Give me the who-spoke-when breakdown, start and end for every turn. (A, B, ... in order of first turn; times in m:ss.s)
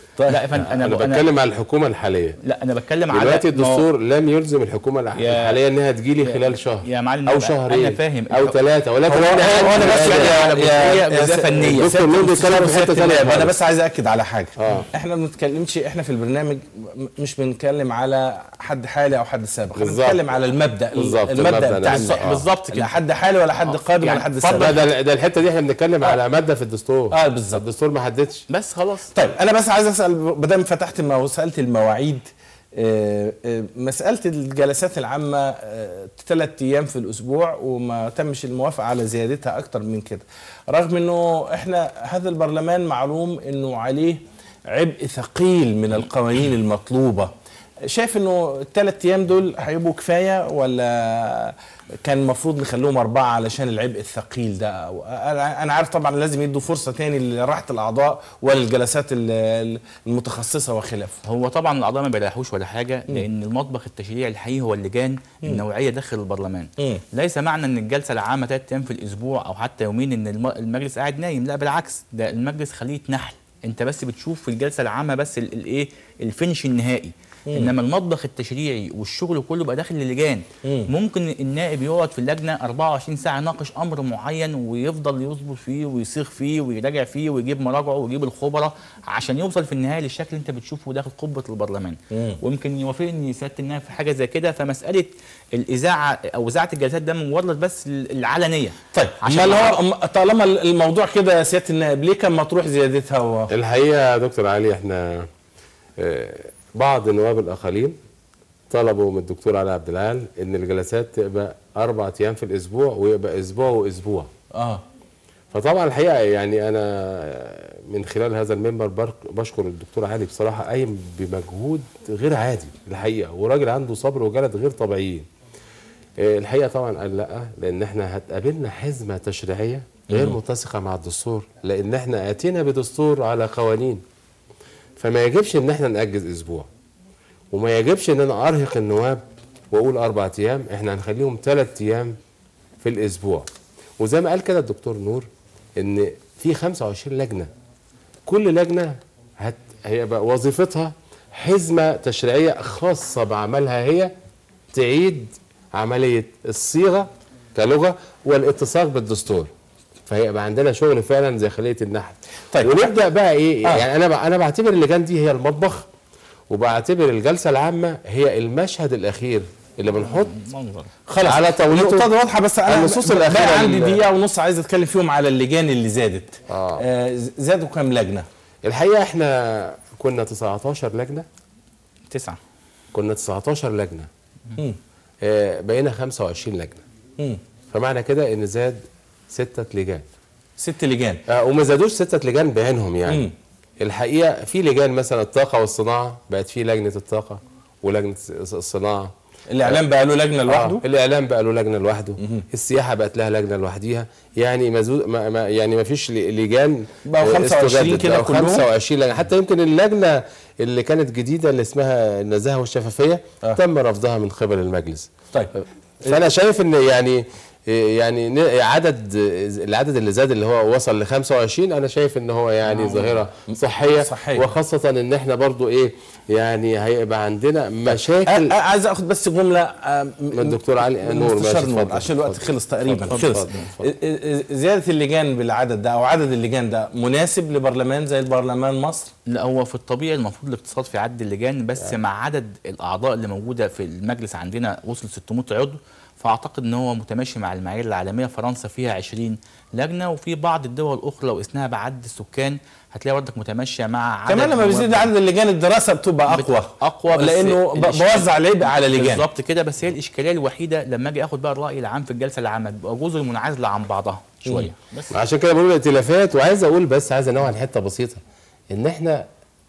0:00.2-0:00.4 A
0:00.3-0:01.2 B
0:00.7-0:02.4 C
0:02.4-0:03.8 B
0:03.1-0:10.4 C
0:05.2-0:05.6 B
0:06.2-0:08.6 B
0:09.1-0:24.7 A
0:09.8-0:11.9 B
0:11.6-0:13.5 C
0:14.6-0:14.8 C
0:19.8-0:20.2 C
0:21.0-0:22.4 C
0:21.8-0:22.9 B
0:23.6-0:24.8 B
0:24.4-0:28.4 C
0:27.1-0:27.6 A
0:28.5-0:29.1 B
0:29.1-0:47.3 A
0:47.8-1:01.2 A
1:01.2-1:39.8 B
1:06.8-1:07.0 A
1:20.6-1:20.9 A
1:32.1-1:32.4 A
1:38.9-1:43.5 A
1:43.5-1:45.3 C
1:46.0-1:47.9 C
1:48.7-1:54.3 C
1:54.5-1:54.8 A
1:55.5-2:05.2 C
2:06.2-2:14.0 C
2:10.1-2:10.4 A
2:15.0-2:16.6 C
2:17.5-2:19.2 C
2:19.7-2:22.1 C
2:22.8-2:23.5 C
2:24.0-2:25.2 C
2:25.8-2:27.5 C
2:28.2-2:34.1 C
2:34.7-2:39.5 C
2:40.1-2:45.8 C
2:42.5-2:42.8 A
2:46.5-2:50.3 C
2:50.0-2:50.9 B
2:51.1-2:58.3 A
2:51.2-2:52.1 C
2:52.6-2:54.0 C
2:56.5-2:56.8 C
2:58.6-3:01.2 C
3:02.1-3:02.4 B
3:02.9-3:04.1 C
3:05.2-3:06.8 C
3:07.7-3:08.8 C
3:09.3-3:10.0 C
3:10.6-3:11.2 A
3:11.3-3:13.2 C
3:13.1-3:13.3 A
3:13.8-3:19.1 C
3:19.5-3:20.8 A
3:20.5-3:35.1 C
3:22.2-3:22.4 A
3:27.0-3:28.7 A
3:36.0-3:48.5 C
3:42.7-3:44.4 A
3:47.9-3:59.1 A
3:50.3-3:53.9 C
3:53.0-3:53.7 B
3:59.2-4:15.1 B
4:14.2-4:19.2 A
4:16.3-4:25.1 B
4:25.1-4:28.2 C
4:28.7-4:29.2 C